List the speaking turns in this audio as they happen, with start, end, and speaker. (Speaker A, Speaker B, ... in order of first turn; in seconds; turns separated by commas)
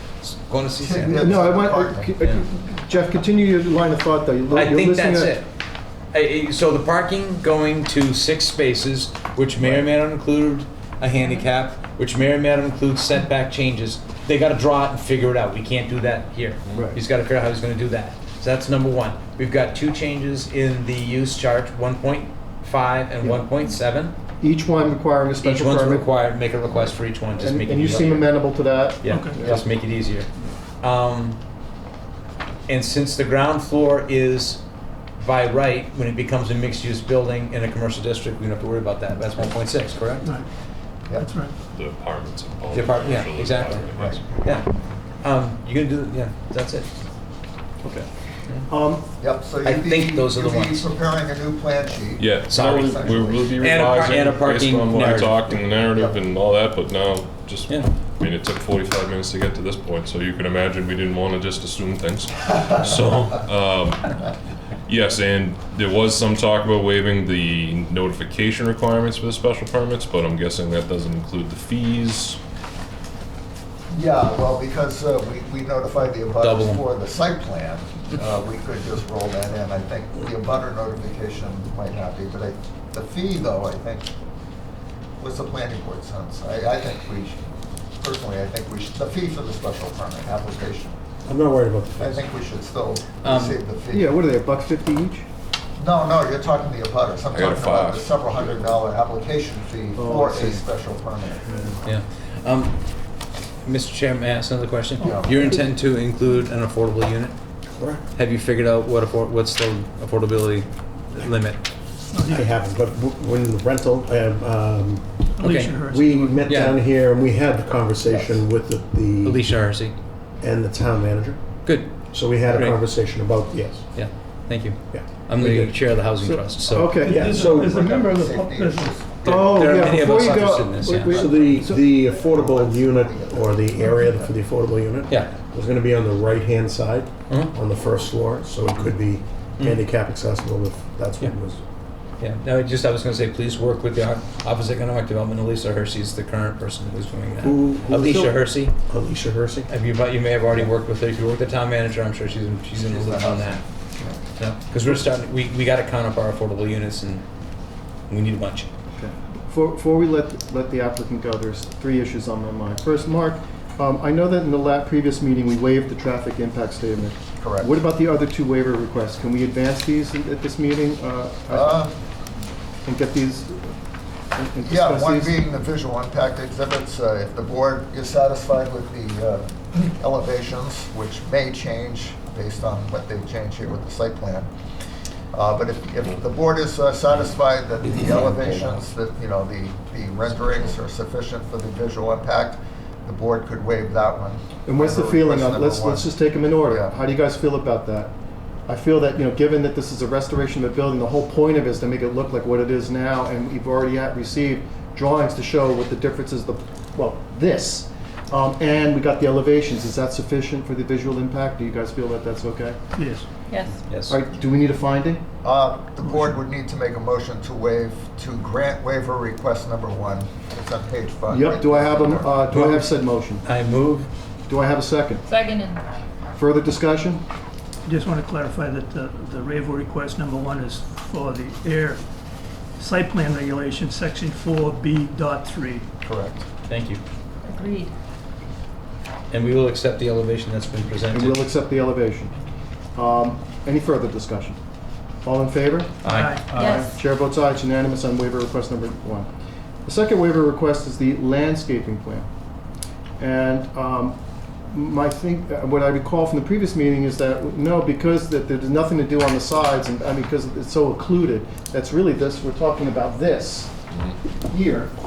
Speaker A: 0.2-1.4, Speaker B: 0.8-2.1, Speaker C: 1.1-5.4, Speaker A: 4.5-5.5, Speaker A: 6.1-24.1, Speaker C: 9.6-9.8, Speaker C: 23.2-23.5, Speaker C: 24.4-26.1, Speaker A: 25.4-28.3, Speaker C: 27.4-29.6, Speaker A: 29.0-30.3, Speaker A: 30.8-31.4, Speaker A: 32.7-34.6, Speaker A: 35.2-40.2, Speaker B: 41.1-41.3, Speaker D: 41.2-41.5, Speaker E: 41.7-44.2, Speaker A: 42.7-44.7, Speaker B: 43.9-44.5, Speaker A: 45.2-46.9, Speaker C: 47.8-48.1, Speaker C: 48.6-49.1, Speaker B: 49.2-53.6, Speaker A: 49.6-50.9, Speaker E: 52.2-64.2, Speaker A: 52.5-55.4, Speaker B: 55.5-56.2, Speaker E: 64.8-72.4, Speaker B: 73.9-84.1, Speaker A: 76.4-76.8, Speaker B: 85.2-87.4, Speaker B: 88.0-91.0, Speaker F: 91.2-92.2, Speaker B: 92.0-94.1, Speaker A: 93.2-93.6, Speaker C: 93.9-95.2, Speaker B: 95.8-101.5, Speaker E: 97.3-98.7, Speaker C: 99.9-100.7, Speaker C: 101.4-101.8, Speaker A: 101.8-102.8, Speaker A: 103.6-107.3, Speaker B: 105.0-105.5, Speaker F: 107.7-108.0, Speaker A: 108.1-111.6, Speaker D: 112.1-112.4, Speaker F: 112.3-119.4, Speaker D: 115.4-116.4, Speaker A: 115.4-115.8, Speaker A: 116.4-116.8, Speaker A: 119.2-119.9, Speaker F: 120.4-121.4, Speaker A: 121.6-123.2, Speaker F: 122.1-123.9, Speaker A: 123.9-127.0, Speaker F: 124.9-125.8, Speaker C: 126.2-127.2, Speaker D: 127.0-129.0, Speaker F: 127.0-127.8, Speaker B: 127.2-134.3, Speaker A: 129.2-131.4, Speaker C: 129.3-131.9, Speaker F: 131.1-141.6, Speaker A: 135.1-135.3, Speaker A: 137.3-137.5, Speaker A: 142.2-148.7, Speaker F: 147.4-149.7, Speaker A: 149.7-153.6, Speaker B: 152.7-154.2, Speaker A: 154.3-157.2, Speaker A: 158.1-158.7, Speaker C: 158.9-171.9, Speaker B: 167.4-167.7, Speaker B: 171.5-171.9, Speaker C: 172.8-173.7, Speaker C: 174.3-175.4, Speaker B: 174.7-184.5, Speaker B: 185.3-196.1, Speaker A: 187.8-188.8, Speaker C: 194.7-198.1, Speaker C: 198.7-212.8, Speaker D: 212.9-213.2, Speaker G: 213.5-213.8, Speaker A: 213.9-214.2, Speaker C: 214.1-215.2, Speaker B: 215.4-222.3, Speaker D: 216.0-216.4, Speaker C: 221.3-223.4, Speaker A: 222.5-222.9, Speaker A: 223.4-224.1, Speaker C: 224.5-225.2, Speaker G: 225.3-225.8, Speaker C: 226.3-227.2, Speaker D: 227.8-232.0, Speaker D: 232.8-235.8, Speaker C: 236.0-236.4, Speaker A: 236.7-237.0, Speaker G: 237.4-237.9, Speaker A: 239.3-241.4, Speaker C: 241.1-242.3, Speaker C: 242.9-244.6, Speaker C: 245.2-249.3, Speaker A: 246.0-246.3, Speaker D: 246.0-246.4, Speaker G: 246.5-246.9, Speaker C: 249.8-252.3, Speaker C: 253.2-254.2, Speaker C: 254.7-263.7, Speaker C: 264.5-264.9